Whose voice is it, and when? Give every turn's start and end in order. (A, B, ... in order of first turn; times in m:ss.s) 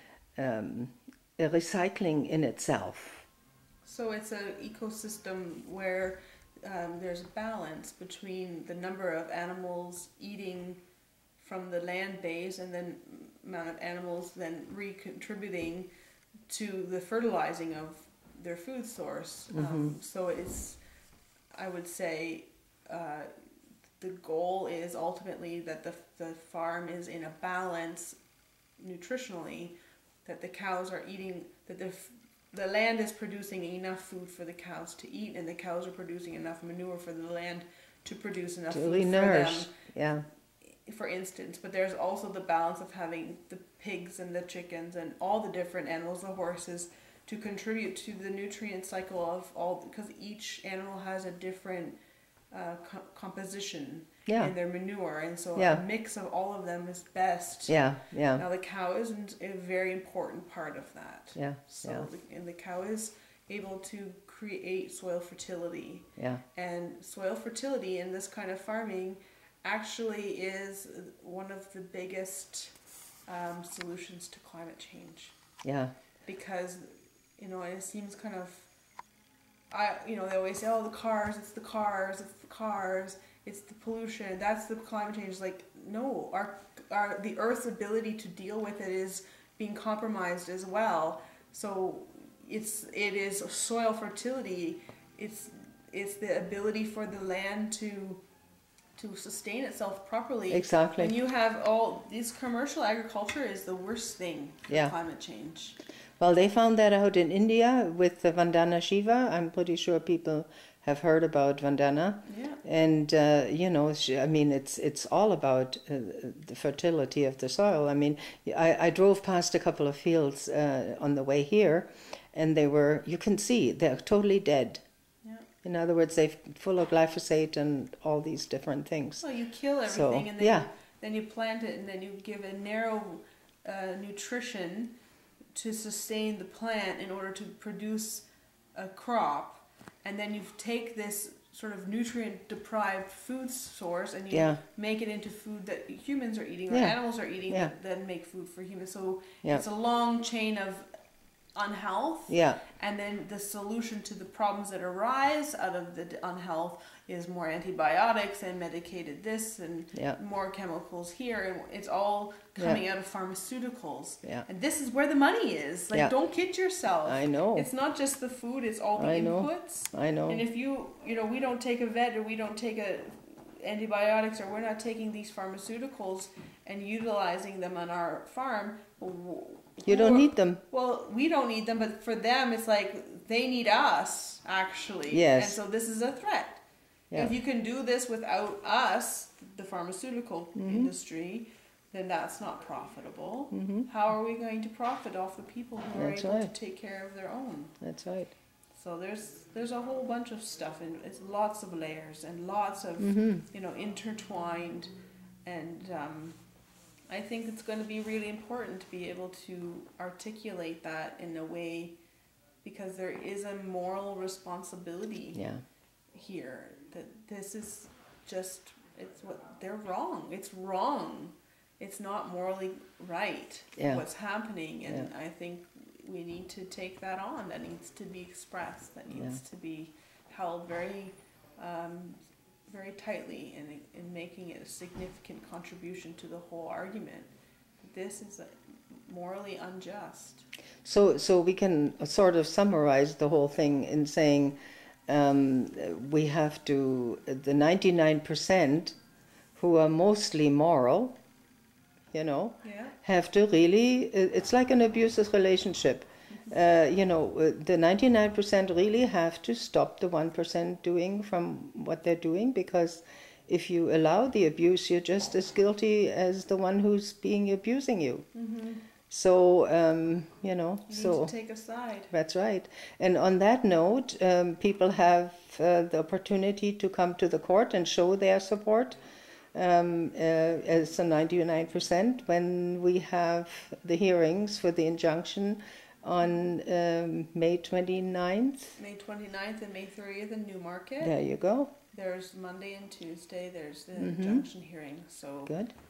0:00.4-0:03.3 A
0:03.8-0:10.8 B
0:11.4-0:15.9 B
0:16.5-0:20.8 B
0:19.5-0:20.0 A
0:21.5-0:23.4 B
0:24.0-0:28.2 B
0:28.8-0:39.7 B
0:38.7-0:40.3 A
0:40.6-0:52.0 B
0:52.5-1:12.8 B
0:54.3-0:54.5 A
0:55.6-0:55.8 A
0:57.7-0:58.4 A
1:01.4-1:02.1 A
1:06.2-1:06.4 A
1:13.3-1:15.4 B
1:15.6-1:15.9 A
1:16.2-1:18.7 B
1:19.7-1:38.2 B
1:39.0-1:45.8 B
1:40.5-1:41.2 A
1:44.7-1:44.9 A
1:46.2-2:04.8 A
1:52.2-1:52.6 B
2:05.2-2:05.5 B
2:05.6-2:09.2 A
2:09.2-2:15.0 B
2:09.9-2:10.7 A
2:15.5-2:30.9 B
2:24.3-2:24.6 A
2:26.7-2:27.0 A
2:31.5-3:06.6 B
2:32.3-2:32.6 A
2:42.6-2:42.8 A
2:47.0-2:47.7 A
2:49.0-2:50.4 A
2:59.8-3:00.6 A
3:05.1-3:05.6 A
3:07.1-3:17.8 B
3:10.6-3:10.9 A
3:13.5-3:13.9 A
3:15.9-3:16.5 A
3:17.8-3:18.3 A
3:18.7-3:24.9 B
3:23.0-3:23.4 A
3:25.4-3:26.4 B
3:27.1-3:32.0 B
3:32.6-3:35.4 B
3:35.3-3:35.6 A
3:36.1-3:57.3 B
3:43.8-3:44.0 A
3:49.1-3:49.4 A
3:57.8-4:00.5 B
4:00.8-4:04.6 A
4:05.1-4:09.0 A
4:09.6-4:11.2 A
4:12.1-4:28.3 A
4:12.6-4:13.0 B
4:28.3-4:28.9 B
4:29.1-4:31.3 A
4:30.9-4:32.1 B
4:32.1-4:39.0 A
4:39.5-4:48.8 A
4:48.8-4:51.1 B
4:51.0-4:51.7 A
4:51.9-4:55.6 B
4:54.0-4:54.5 A
4:55.5-4:55.7 A